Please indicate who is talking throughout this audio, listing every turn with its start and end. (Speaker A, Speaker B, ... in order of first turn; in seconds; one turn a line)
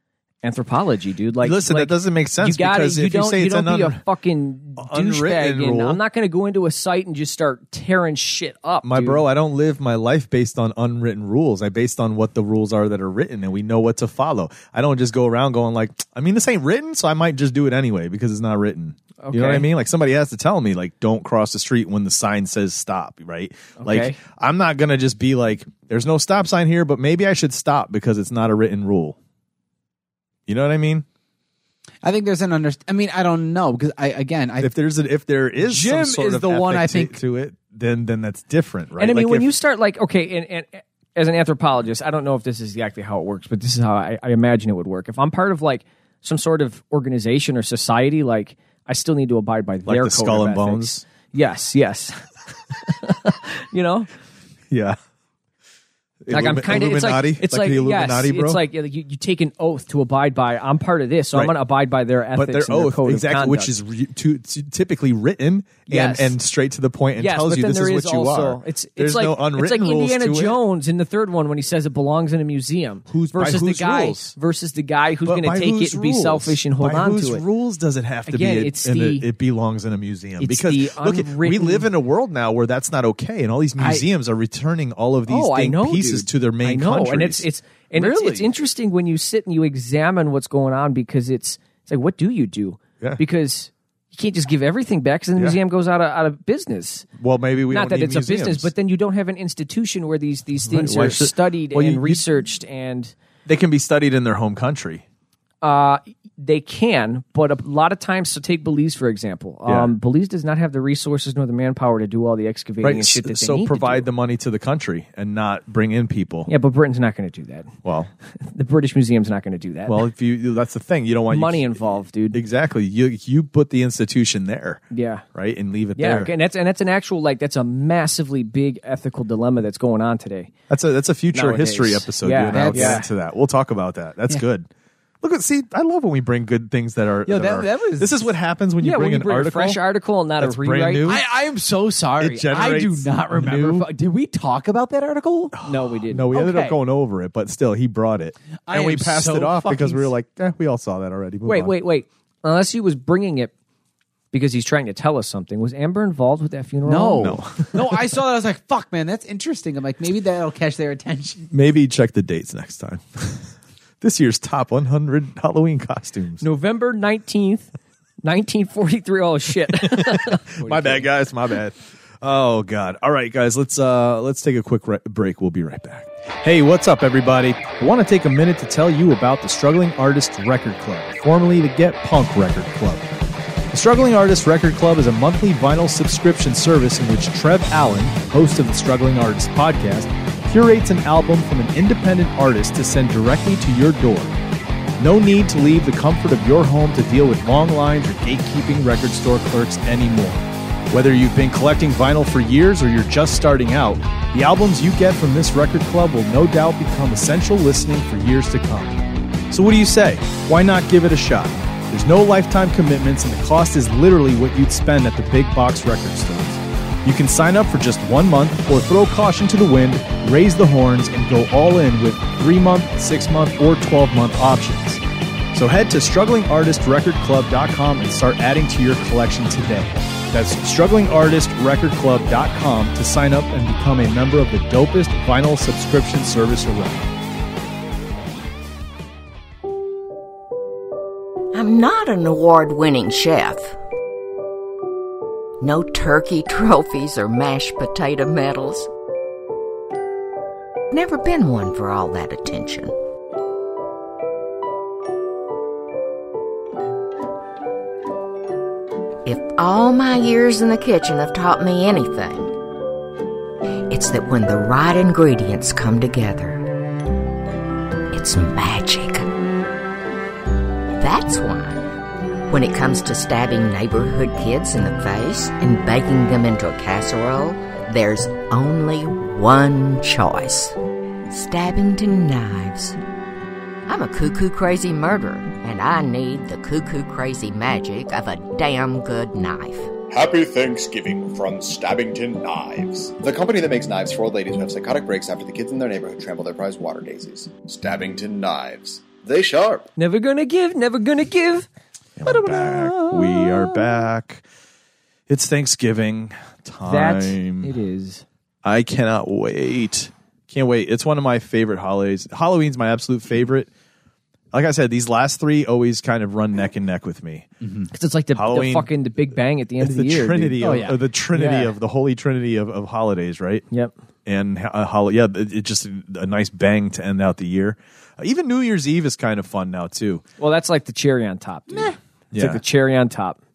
Speaker A: 0.4-9.2
Speaker B: 1.4-4.0
Speaker B: 4.8-6.0
Speaker B: 8.8-29.2
Speaker A: 19.2-19.7
Speaker A: 23.8-24.2
Speaker B: 30.5-31.1
Speaker C: 32.0-34.7
Speaker B: 34.6-39.5
Speaker C: 35.6-37.2
Speaker A: 39.0-52.2
Speaker B: 49.9-51.0
Speaker A: 52.7-54.1
Speaker B: 54.7-55.0
Speaker B: 56.2-58.6
Speaker A: 56.3-63.7
Speaker B: 62.4-70.6
Speaker A: 65.9-66.4
Speaker A: 67.2-77.4
Speaker B: 73.1-74.3
Speaker B: 75.2-88.5
Speaker A: 78.3-79.3
Speaker A: 80.4-81.9
Speaker C: 83.8-84.0
Speaker A: 85.3-97.1
Speaker B: 97.2-98.7
Speaker A: 97.7-103.1
Speaker B: 100.7-102.3
Speaker B: 103.5-105.0
Speaker A: 105.6-114.1
Speaker B: 109.7-109.9
Speaker B: 112.8-116.5
Speaker A: 116.5-117.8
Speaker B: 117.8-118.1
Speaker A: 118.4-120.1
Speaker B: 119.9-124.8
Speaker A: 121.3-122.4
Speaker A: 124.9-125.2
Speaker B: 125.3-126.3
Speaker A: 126.0-130.5
Speaker B: 130.7-134.7
Speaker A: 131.3-133.1
Speaker C: 132.5-133.1
Speaker B: 135.2-139.8
Speaker C: 137.3-138.3
Speaker A: 138.8-141.2
Speaker B: 140.4-141.2
Speaker C: 141.1-145.6
Speaker B: 142.2-143.9
Speaker B: 145.6-151.8
Speaker A: 145.7-146.3
Speaker C: 146.3-146.8
Speaker C: 148.7-150.1
Speaker A: 151.4-153.5
Speaker A: 154.3-157.5
Speaker C: 156.8-161.5
Speaker B: 157.2-157.8
Speaker B: 161.5-166.4
Speaker A: 166.4-167.7
Speaker A: 168.2-171.0
Speaker B: 169.7-183.1
Speaker B: 183.7-194.4
Speaker B: 195.0-225.0
Speaker B: 225.5-237.1
Speaker D: 241.5-243.8
Speaker D: 245.6-248.9
Speaker D: 250.9-252.9
Speaker D: 259.2-262.5
Speaker D: 263.9-266.6
Speaker D: 268.1-269.3
Speaker D: 271.0-271.9
Speaker D: 272.5-280.8
Speaker D: 281.3-283.0
Speaker D: 283.9-289.9
Speaker E: 290.1-299.9
Speaker A: 300.0-301.7
Speaker B: 302.2-304.4
Speaker C: 302.3-303.7
Speaker B: 305.3-307.7
Speaker A: 306.8-308.2
Speaker B: 308.6-313.7
Speaker B: 314.5-317.5
Speaker C: 317.6-317.9
Speaker A: 317.9-320.6
Speaker B: 318.4-318.9
Speaker B: 319.8-323.6
Speaker C: 320.6-321.0
Speaker A: 321.3-321.8
Speaker B: 324.3-330.2
Speaker A: 330.4-333.4
Speaker B: 332.3-332.6